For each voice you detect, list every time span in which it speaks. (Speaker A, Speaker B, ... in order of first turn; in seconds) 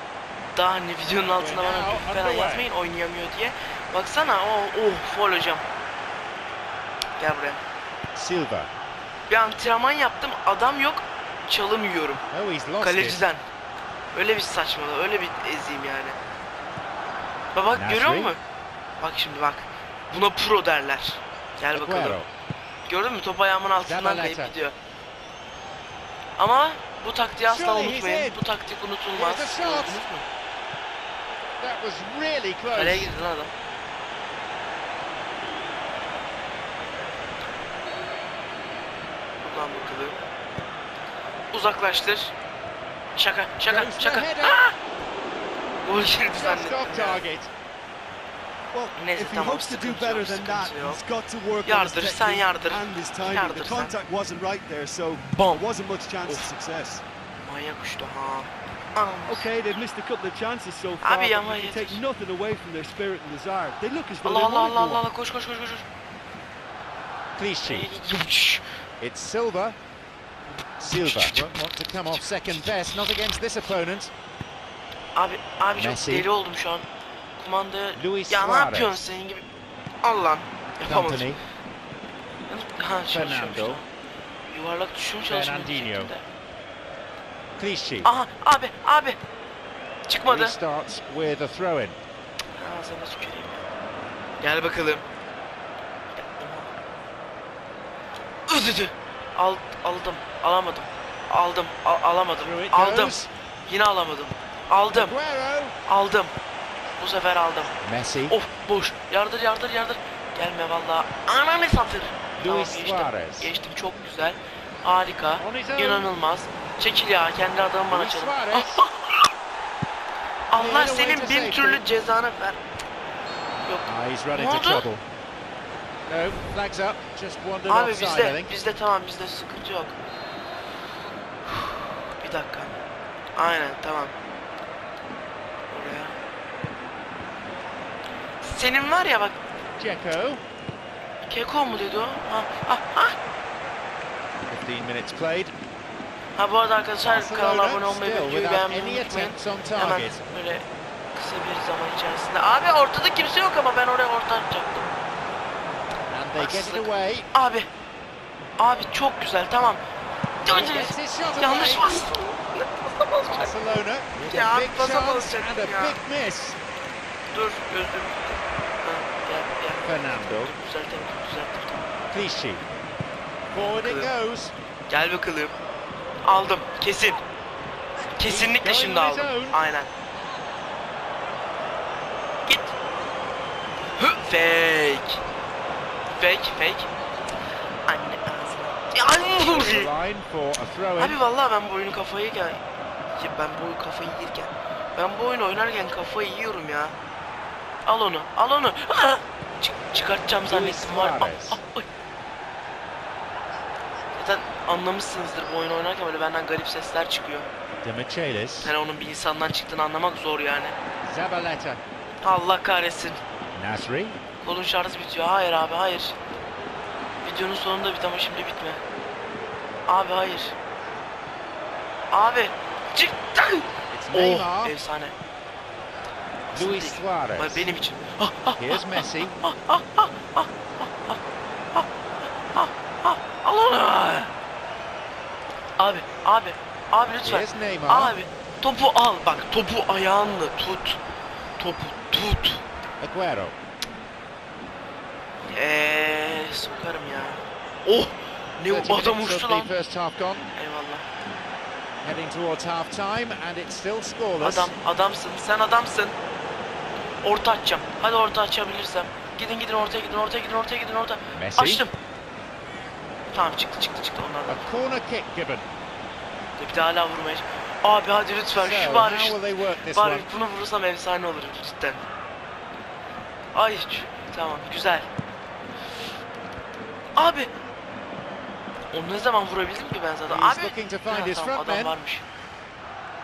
Speaker A: 0.5-5.6, 7.2-7.6, 9.3-12.2, 12.8-13.4, 14.1-16.2, 17.5-18.4, 19.0-22.2, 22.9-24.8, 26.4-30.2, 32.7-33.5, 39.4-40.2, 41.5-42.3, 43.2-44.8, 45.8-47.2, 49.0-51.0, 51.6-53.9, 55.3-55.6, 57.4-59.5, 61.0-62.0, 64.2-65.8, 67.6-68.6, 70.5-71.5, 72.1-72.8, 75.1-76.8, 77.4-79.4, 80.0-81.4, 82.5-83.9, 84.5-86.2, 88.0-89.2, 90.1-90.6, 92.5-93.6, 94.4-95.0, 96.1-96.7, 98.5-105.1, 105.8-106.3, 107.0-107.7, 108.3-119.3, 120.5-122.6, 123.6-124.8, 127.7-130.0, 131.5-132.8, 133.4-134.2, 135.7-136.2, 138.4-139.4, 141.3-143.2, 146.4-154.9, 156.4-157.7, 158.6-159.8, 160.4-163.5, 164.3-166.0, 167.3-171.9, 173.6-174.1, 174.9-175.6, 176.2-177.2, 178.2-179.9, 182.5-182.8, 184.0-185.2, 186.2-186.9, 187.9-189.9, 191.0-192.6, 193.2-196.9, 197.8-201.9, 204.2-207.5, 208.6-210.8, 212.2-213.2, 214.4-216.2, 217.2-218.8, 219.9-220.6, 222.1-225.1, 226.5-231.2, 232.5-234.3, 235.8-241.0, 241.6-242.6, 245.5-249.7, 250.6-251.0, 254.4-256.2, 257.2-261.9, 263.3-264.7, 266.6-272.0, 273.5-275.1, 277.2-277.5, 278.9-282.2
Speaker B: 1.2-2.7, 8.1-8.7, 12.3-13.2, 17.8-18.3, 21.7-22.3, 23.8-24.5, 27.5-28.4, 29.1-30.0, 31.6-33.1, 43.7-44.6, 46.3-47.5, 67.4-67.9, 69.0-69.8, 70.8-74.1, 75.8-76.3, 78.0-79.0, 80.8-81.4, 83.1-83.8, 85.3-86.1, 87.6-88.1, 90.3-92.0, 102.4-103.3, 104.9-105.7, 107.8-108.4, 112.4-113.5, 115.4-116.1, 117.9-118.8, 120.5-121.8, 123.9-125.0, 126.1-128.5, 139.8-140.4, 144.5-145.5, 147.0-150.2, 156.1-157.3, 160.5-162.0, 163.2-166.6, 169.8-170.5, 172.1-172.6, 173.5-174.5, 178.2-179.6, 189.4-191.2, 200.5-201.6, 207.8-208.7, 211.1-211.8, 213.6-214.2, 223.9-224.8, 226.5-227.7, 228.6-229.4, 237.2-238.1, 243.0-243.6, 248.7-250.4, 252.0-254.7, 261.3-261.8, 264.5-265.7, 268.6-270.3, 280.3-281.9
Speaker C: 48.7-57.0, 59.3-65.0